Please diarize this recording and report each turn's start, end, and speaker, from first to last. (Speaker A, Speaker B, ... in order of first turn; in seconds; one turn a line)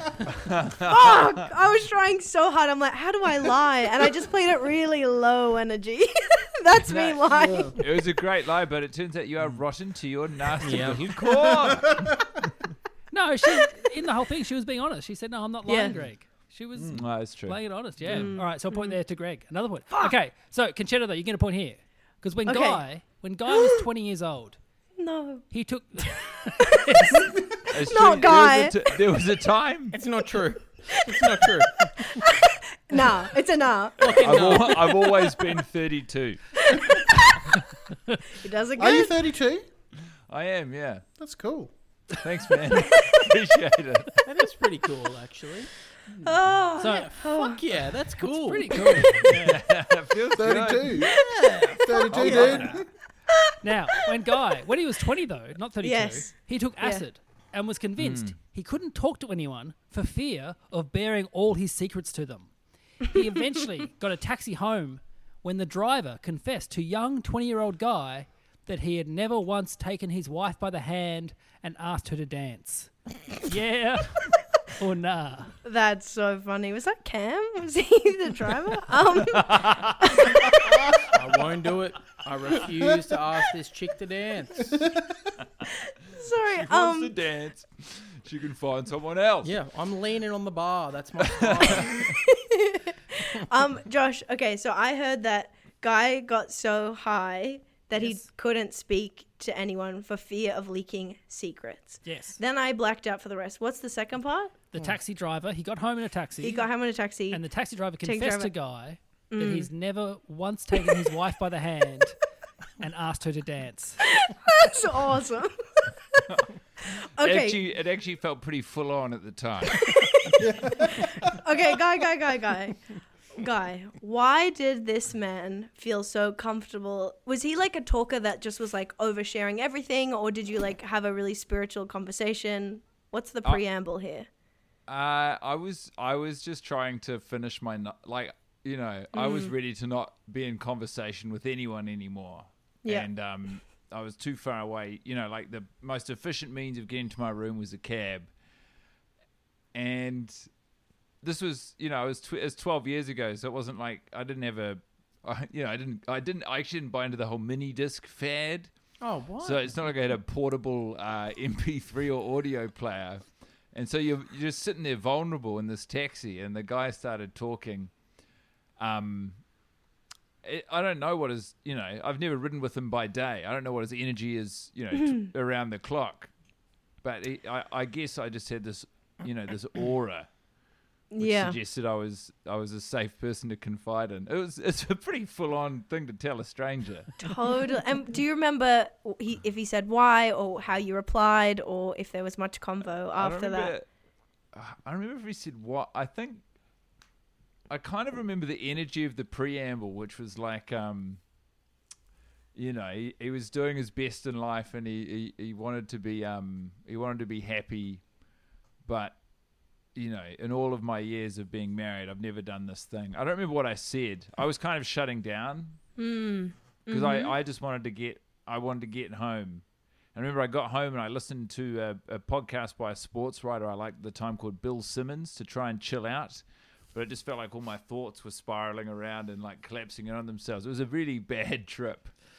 Speaker A: 0.5-1.3
Speaker B: 0.8-7.8
Speaker A: 6.7-7.2
Speaker C: 7.3-7.8
Speaker A: 7.8-12.2
Speaker D: 10.6-11.7
Speaker C: 11.7-12.2
Speaker E: 13.1-24.6
Speaker B: 15.7-16.0
Speaker C: 16.8-17.1
Speaker A: 16.9-18.3
Speaker B: 18.1-19.0
Speaker B: 22.5-22.8
Speaker B: 23.5-23.8
Speaker B: 25.0-25.4
Speaker E: 25.5-27.3
Speaker B: 26.8-28.8
Speaker A: 27.7-30.0
Speaker D: 29.9-31.9
Speaker B: 31.1-34.2
Speaker D: 34.0-35.1
Speaker A: 34.0-36.4
Speaker B: 36.7-37.4
Speaker B: 38.3-39.1
Speaker C: 38.8-39.7
Speaker A: 40.3-41.0
Speaker C: 41.2-41.7
Speaker A: 42.1-44.2
Speaker D: 44.2-45.7
Speaker B: 46.2-47.6
Speaker E: 46.8-47.1
Speaker D: 46.8-49.2
Speaker E: 48.4-49.6
Speaker A: 49.2-51.0
Speaker C: 50.3-51.2
Speaker B: 51.0-52.4
Speaker D: 51.1-52.7
Speaker C: 51.8-52.9
Speaker A: 52.2-52.5
Speaker E: 53.6-62.5
Speaker B: 55.8-57.0
Speaker A: 58.0-58.4
Speaker E: 63.0-75.5
Speaker B: 75.7-80.6
Speaker A: 79.3-80.0
Speaker D: 81.1-84.8
Speaker C: 84.8-85.3
Speaker B: 85.7-87.1
Speaker A: 86.5-89.5
Speaker D: 89.4-92.1
Speaker A: 91.3-92.0
Speaker B: 92.0-104.6
Speaker E: 102.0-102.4
Speaker E: 104.7-106.7
Speaker B: 106.4-107.5
Speaker E: 107.3-112.2
Speaker B: 108.0-108.5
Speaker B: 109.3-109.7
Speaker E: 112.8-114.0
Speaker B: 114.2-116.2
Speaker B: 117.2-117.6
Speaker A: 117.2-119.9
Speaker B: 119.8-122.8
Speaker C: 120.4-121.3
Speaker B: 123.4-134.3
Speaker A: 134.9-148.3
Speaker B: 139.1-139.5
Speaker A: 149.7-150.4
Speaker A: 151.2-158.7
Speaker D: 159.0-159.8
Speaker A: 159.4-167.9
Speaker A: 168.8-169.4
Speaker A: 170.4-176.3
Speaker A: 177.0-180.3
Speaker B: 181.1-181.6
Speaker A: 181.2-187.1
Speaker B: 187.2-193.7
Speaker A: 193.2-193.9
Speaker A: 194.5-196.4
Speaker A: 197.7-201.2
Speaker A: 202.6-208.0
Speaker A: 208.9-209.2
Speaker A: 209.9-215.8
Speaker B: 216.0-217.3
Speaker A: 216.9-219.6
Speaker A: 220.1-232.1